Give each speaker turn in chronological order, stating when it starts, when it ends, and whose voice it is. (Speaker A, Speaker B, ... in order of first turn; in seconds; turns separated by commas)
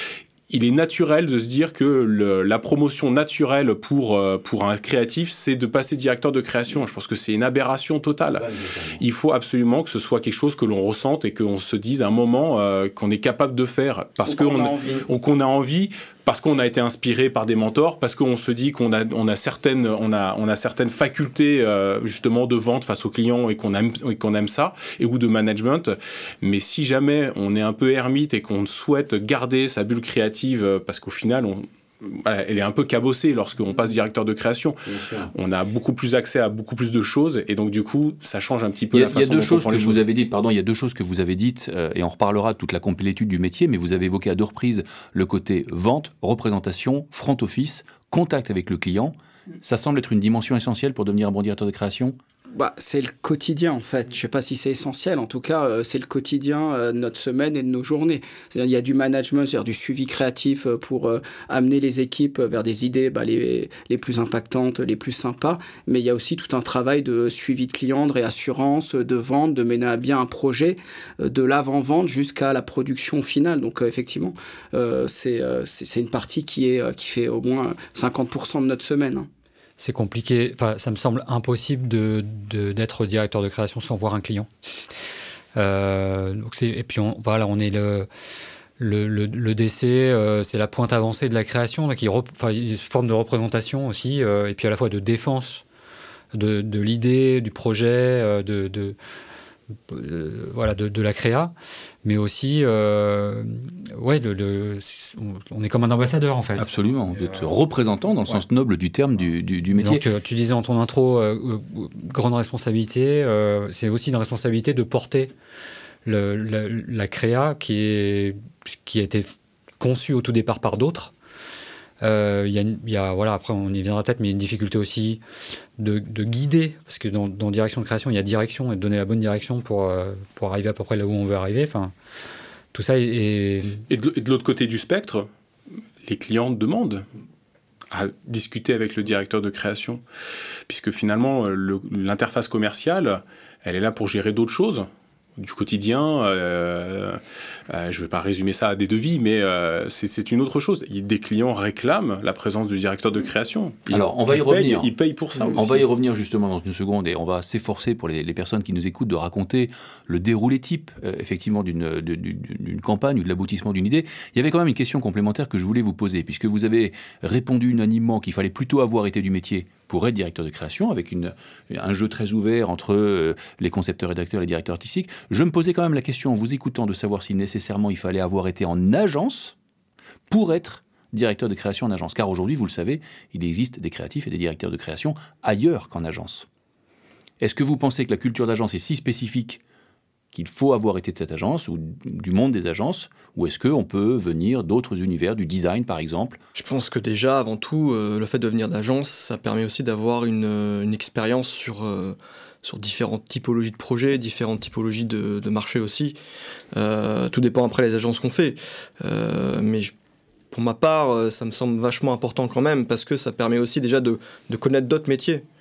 Speaker A: 0.5-34.8, Speaker B: 8.3-9.0, Speaker C: 14.3-15.1, Speaker B: 34.9-35.3, Speaker A: 35.3-40.0, Speaker B: 38.9-52.2, Speaker C: 52.5-79.3, Speaker D: 79.8-84.5, Speaker D: 85.5-88.1, Speaker D: 88.8-95.6, Speaker D: 96.3-99.0, Speaker D: 99.9-101.5, Speaker D: 102.0-106.7, Speaker B: 106.6-110.0, Speaker D: 109.7-115.3, Speaker D: 116.0-121.1, Speaker D: 122.0-125.2, Speaker D: 125.8-131.9, Speaker D: 132.7-133.8, Speaker A: 133.9-135.3, Speaker A: 136.0-137.1, Speaker A: 137.9-140.0, Speaker A: 140.7-144.9, Speaker A: 145.4-155.8, Speaker B: 153.9-154.9, Speaker B: 155.5-179.6, Speaker B: 180.3-186.5, Speaker B: 187.4-189.6, Speaker B: 190.3-196.4, Speaker E: 196.6-206.2, Speaker E: 206.7-209.9, Speaker E: 210.5-215.4